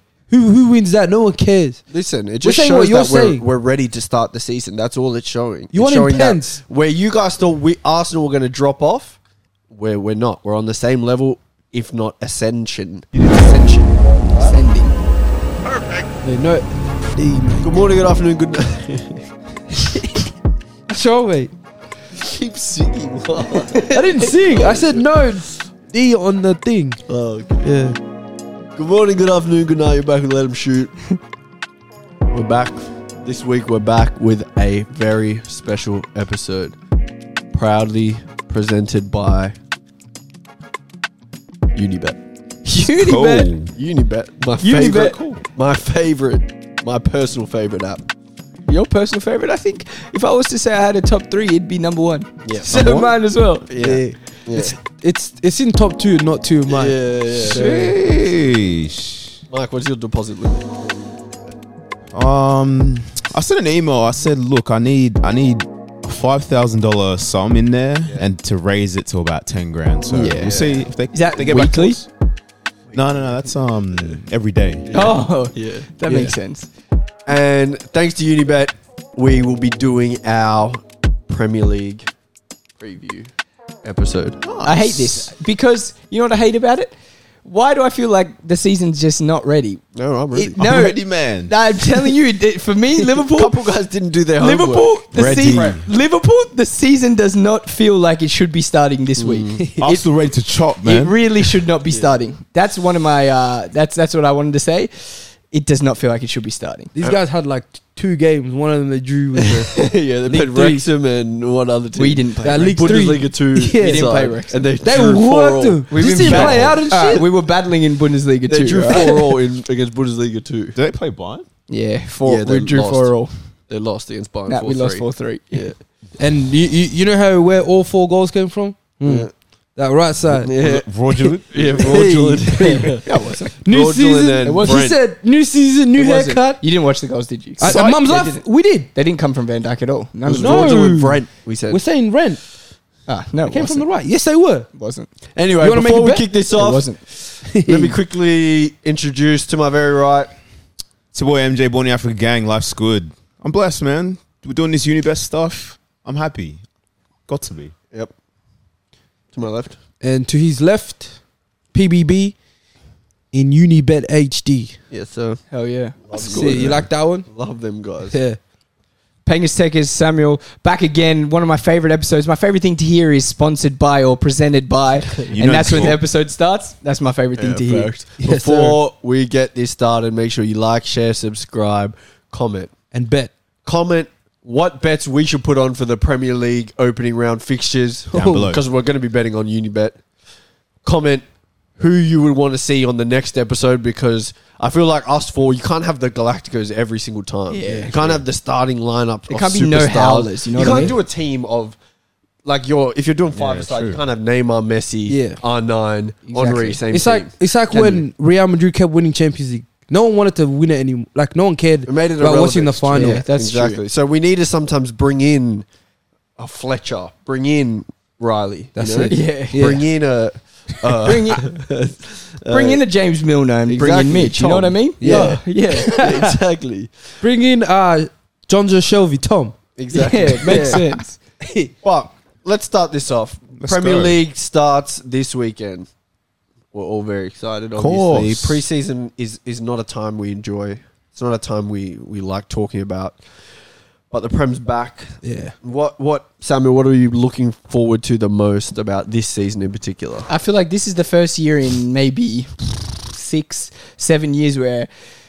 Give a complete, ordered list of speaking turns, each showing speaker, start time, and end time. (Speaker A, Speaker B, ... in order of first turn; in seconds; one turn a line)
Speaker A: 0.3-1.8
Speaker B: 1.9-9.2
Speaker A: 2.4-3.4
Speaker A: 5.7-6.6
Speaker B: 9.7-14.6
Speaker C: 14.4-15.0
Speaker B: 15.8-16.0
Speaker A: 16.2-17.8
Speaker B: 17.6-19.3
Speaker A: 19.9-20.2
Speaker A: 20.9-21.5
Speaker B: 22.1-25.2
Speaker A: 23.9-27.0
Speaker B: 27.1-27.7
Speaker A: 27.6-28.0
Speaker B: 28.8-30.9
Speaker B: 32.3-36.8
Speaker B: 37.5-39.5
Speaker B: 41.8-42.2
Speaker C: 42.6-43.5
Speaker D: 42.9-43.7
Speaker B: 43.7-48.1
Speaker C: 44.6-45.2
Speaker D: 44.9-45.4
Speaker C: 48.7-54.0
Speaker B: 52.4-52.7
Speaker A: 52.7-53.1
Speaker D: 52.7-53.1
Speaker B: 53.7-54.8
Speaker A: 53.8-57.0
Speaker B: 56.7-57.7
Speaker C: 57.4-58.0
Speaker D: 57.4-59.4
Speaker B: 59.5-61.0
Speaker D: 62.1-72.1
Speaker C: 70.1-72.0
Speaker B: 70.3-70.8
Speaker B: 72.9-73.5
Speaker D: 72.9-75.1
Speaker B: 74.9-76.2
Speaker C: 74.9-76.7
Speaker B: 77.3-82.1
Speaker B: 82.8-83.3
Speaker B: 83.8-84.4
Speaker D: 84.4-85.3
Speaker C: 84.6-93.5
Speaker B: 90.0-90.6
Speaker D: 90.6-91.5
Speaker B: 93.0-95.8
Speaker C: 94.4-100.1
Speaker D: 95.1-95.8
Speaker B: 99.2-99.7
Speaker D: 99.8-101.2
Speaker C: 100.8-106.9
Speaker A: 107.0-110.8
Speaker B: 109.4-117.0
Speaker C: 112.0-113.0
Speaker A: 112.4-114.1
Speaker C: 113.8-114.7
Speaker A: 114.8-117.3
Speaker C: 115.9-119.3
Speaker B: 118.5-120.8
Speaker D: 120.8-121.5
Speaker C: 121.7-123.3
Speaker B: 122.2-123.2
Speaker B: 123.7-125.8
Speaker C: 124.5-125.7
Speaker A: 126.2-130.6
Speaker B: 129.0-129.3
Speaker B: 130.3-135.0
Speaker D: 130.6-132.4
Speaker A: 131.8-136.6
Speaker C: 132.9-133.5
Speaker C: 134.4-134.9
Speaker C: 136.0-140.9
Speaker A: 137.6-138.9
Speaker D: 137.6-138.1
Speaker B: 140.3-141.8
Speaker A: 140.4-142.4
Speaker C: 143.1-143.9
Speaker A: 143.5-144.7
Speaker C: 144.7-145.1
Speaker B: 145.3-150.3
Speaker A: 145.6-146.3
Speaker C: 146.5-147.0
Speaker A: 147.4-148.0
Speaker D: 151.1-156.6
Speaker D: 157.3-157.7
Speaker B: 159.3-159.8
Speaker A: 160.0-161.2
Speaker A: 161.7-162.3
Speaker A: 163.3-164.8
Speaker B: 164.9-165.4
Speaker C: 165.5-166.6
Speaker B: 166.0-168.2
Speaker A: 166.2-167.3
Speaker D: 166.6-166.8
Speaker A: 168.1-168.4
Speaker C: 169.2-178.0
Speaker B: 175.0-175.8
Speaker D: 175.3-176.0
Speaker B: 177.4-182.7
Speaker A: 178.2-178.8
Speaker A: 182.9-183.3
Speaker B: 183.7-190.0
Speaker D: 188.1-188.6
Speaker A: 188.2-188.5
Speaker B: 190.8-191.2
Speaker B: 191.8-201.8
Speaker C: 197.5-197.9
Speaker C: 199.3-201.0
Speaker B: 202.4-208.1
Speaker D: 203.3-204.0
Speaker A: 205.1-205.4
Speaker C: 206.3-206.8
Speaker A: 206.9-213.2
Speaker B: 211.9-215.7
Speaker C: 212.9-213.8
Speaker B: 216.4-222.8
Speaker A: 218.8-219.8
Speaker C: 218.9-219.8
Speaker C: 221.0-221.4
Speaker C: 222.5-226.0
Speaker B: 223.7-226.9
Speaker A: 225.0-226.4
Speaker A: 227.2-229.5
Speaker B: 229.8-230.8
Speaker C: 229.9-231.2
Speaker A: 230.5-230.8
Speaker A: 231.4-231.7
Speaker B: 231.8-235.9
Speaker D: 233.6-234.2
Speaker B: 236.7-243.2
Speaker D: 237.8-238.6
Speaker B: 244.1-250.3
Speaker A: 245.2-245.6
Speaker C: 250.3-254.9